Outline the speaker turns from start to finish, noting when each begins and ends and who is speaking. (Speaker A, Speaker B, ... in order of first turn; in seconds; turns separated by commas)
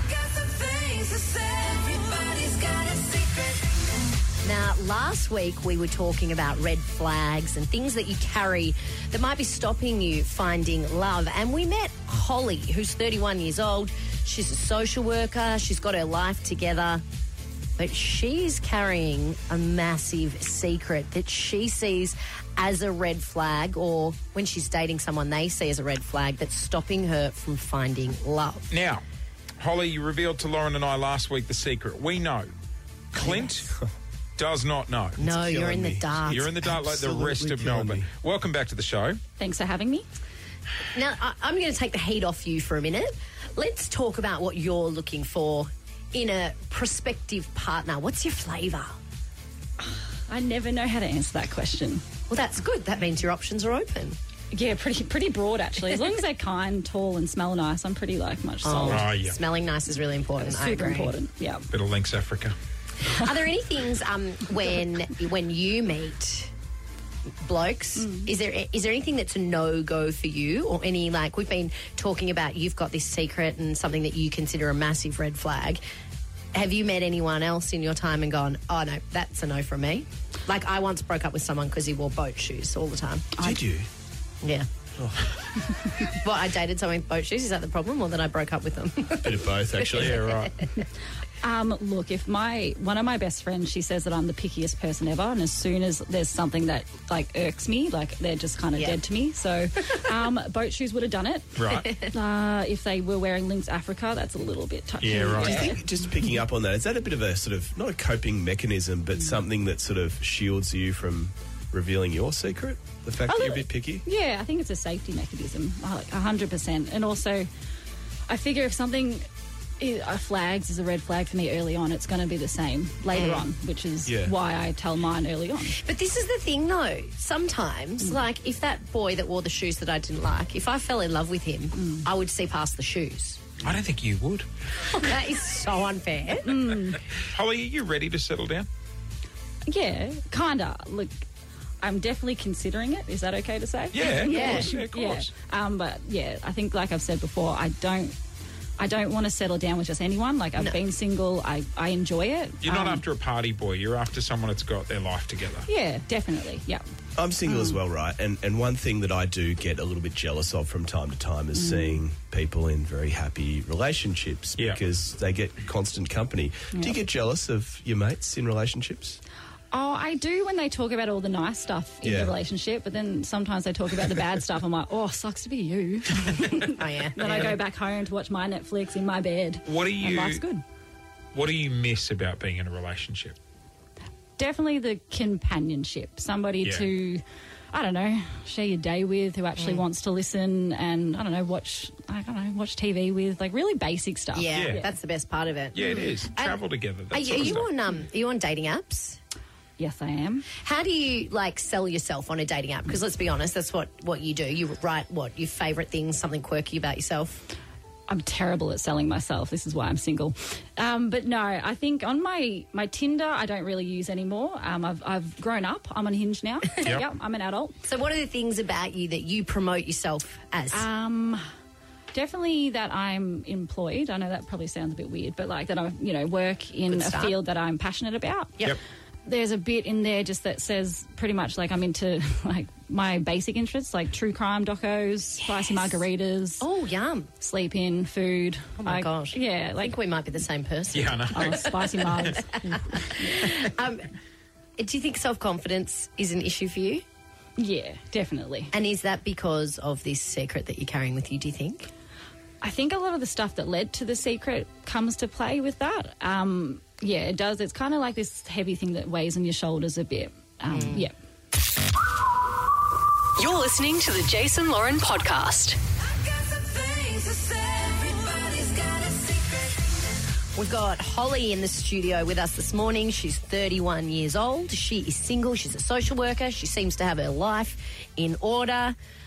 Speaker A: 0.4-3.5, Speaker A: 4.4-17.0, Speaker A: 17.8-28.7, Speaker B: 28.7-29.0, Speaker B: 29.6-32.5, Speaker B: 33.1-33.7, Speaker A: 33.1-33.7, Speaker B: 34.4-35.2, Speaker C: 35.2-38.1, Speaker A: 35.2-36.5, Speaker B: 36.3-39.2, Speaker D: 39.4-40.1, Speaker A: 41.0-48.9, Speaker D: 49.8-52.0, Speaker A: 52.3-54.2, Speaker D: 54.5-59.1, Speaker A: 58.6-61.1, Speaker B: 58.9-59.4, Speaker D: 60.4-61.7, Speaker B: 61.7-62.6, Speaker A: 63.1-66.5, Speaker A: 67.4-75.8, Speaker D: 68.0-68.3, Speaker A: 76.5-83.3, Speaker C: 83.4-83.9, Speaker C: 85.0-85.3, Speaker A: 86.0-90.1, Speaker C: 89.2-90.3, Speaker B: 90.0-90.6, Speaker D: 91.4-101.5, Speaker B: 101.6-101.9, Speaker A: 101.7-102.0, Speaker D: 102.1-105.8, Speaker B: 105.0-105.7, Speaker C: 105.3-114.0, Speaker D: 113.3-117.5, Speaker D: 118.3-119.2, Speaker D: 119.8-125.8, Speaker A: 123.1-123.5, Speaker C: 124.1-124.3, Speaker A: 125.8-133.5, Speaker D: 131.8-132.0, Speaker B: 133.6-134.5, Speaker A: 134.8-136.6, Speaker D: 136.4-137.0, Speaker B: 137.1-138.7, Speaker D: 139.7-141.2, Speaker D: 141.8-148.2, Speaker B: 143.9-145.3, Speaker A: 144.3-144.7, Speaker D: 148.8-153.0, Speaker B: 152.6-155.7, Speaker D: 155.7-156.8, Speaker C: 157.2-169.2, Speaker D: 157.4-157.8, Speaker D: 161.5-162.0, Speaker D: 166.7-167.0, Speaker D: 169.7-180.6, Speaker C: 172.0-172.3, Speaker A: 176.8-177.6, Speaker B: 179.7-180.4, Speaker B: 181.3-183.4, Speaker D: 184.4-194.9, Speaker A: 189.6-189.8, Speaker A: 194.3-199.2, Speaker B: 194.5-194.8, Speaker B: 195.7-197.7, Speaker D: 199.8-200.5, Speaker A: 200.6-207.4, Speaker D: 208.1-217.8, Speaker A: 217.9-220.9, Speaker D: 220.7-221.4, Speaker D: 222.1-228.6, Speaker A: 226.9-227.4, Speaker D: 229.3-236.7, Speaker A: 236.6-237.3, Speaker D: 237.4-239.9, Speaker A: 238.8-241.6, Speaker B: 240.9-242.3, Speaker D: 241.3-243.5, Speaker A: 242.7-244.1, Speaker A: 244.8-247.0, Speaker D: 247.6-248.7, Speaker A: 248.7-251.9, Speaker D: 252.6-261.1, Speaker A: 260.7-261.1, Speaker E: 263.4-265.8, Speaker A: 266.6-269.1, Speaker A: 270.6-279.0